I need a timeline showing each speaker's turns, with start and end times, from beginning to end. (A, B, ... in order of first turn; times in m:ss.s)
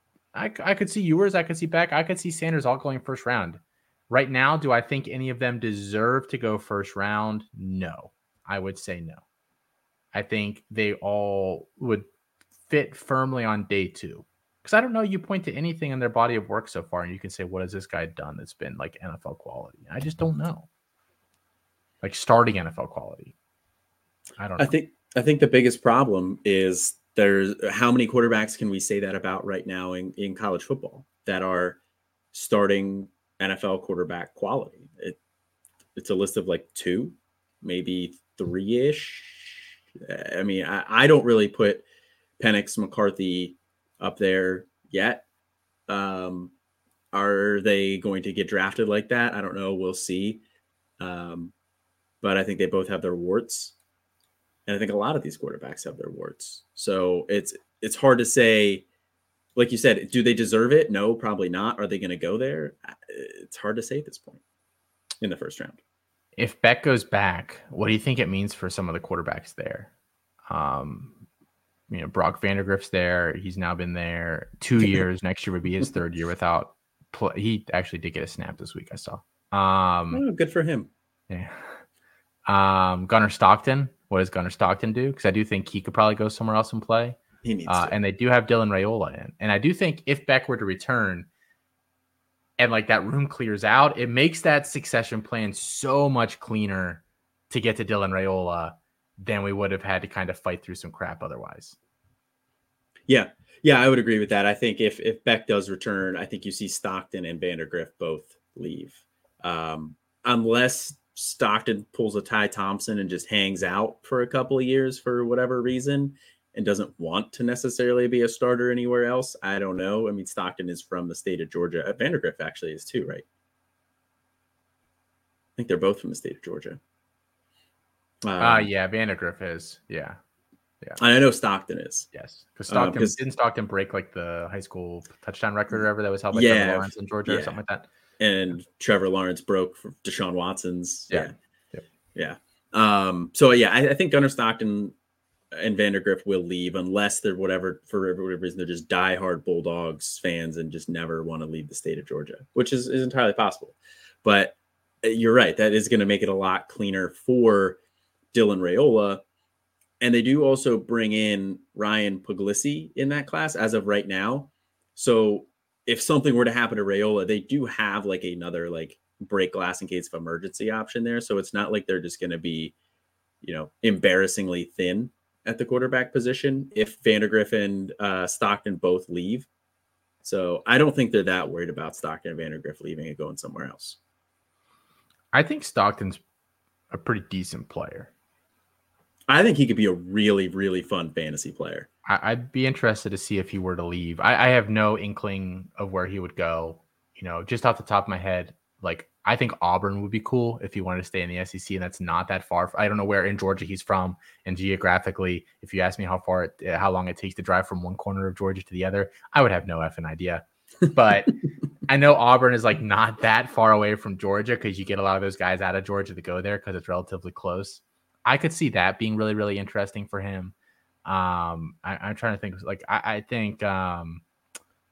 0:00.3-0:09.2 A
0:10.1-0:12.1 A
0:12.7-0:20.7 A
0:22.0-0:23.3 A
0:24.4-0:24.7 A
0:24.6-0:31.8 B
0:32.3-0:35.2 B
0:36.0-0:41.8 B
0:42.4-0:45.2 B
0:45.9-0:46.5 B
0:47.1-0:50.4 B
0:51.0-0:51.5 B
0:52.2-0:53.7 B
0:54.7-0:58.8 B
0:59.5-1:04.4 B
1:05.2-1:05.8 B
1:06.4-1:09.9 A
1:10.5-1:11.2 A
1:11.9-1:20.2 A
1:20.1-1:20.9 B
1:21.3-1:21.6 A
1:22.5-1:31.3 A
1:27.4-1:28.0 B
1:32.6-1:41.8 A
1:43.1-2:03.2 B
2:05.6-2:06.8 B
2:08.2-2:08.7 B
2:08.4-2:10.2 A
2:11.0-2:12.1 B
2:12.1-2:17.9 A
2:12.7-2:13.2 B
2:16.3-2:17.6 B
2:18.2-2:21.3 B
2:21.1-2:21.8 A
2:22.1-2:24.9 B
2:25.5-2:37.8 B
2:38.3-2:39.2 B
2:40.0-2:52.7 B
2:53.4-2:59.5 B
3:00.2-3:04.0 B
3:05.3-3:06.2 A
3:06.9-3:08.1 A
3:09.3-3:11.9 B
3:12.0-3:31.3 A
3:31.9-3:40.5 A
3:41.0-3:44.2 A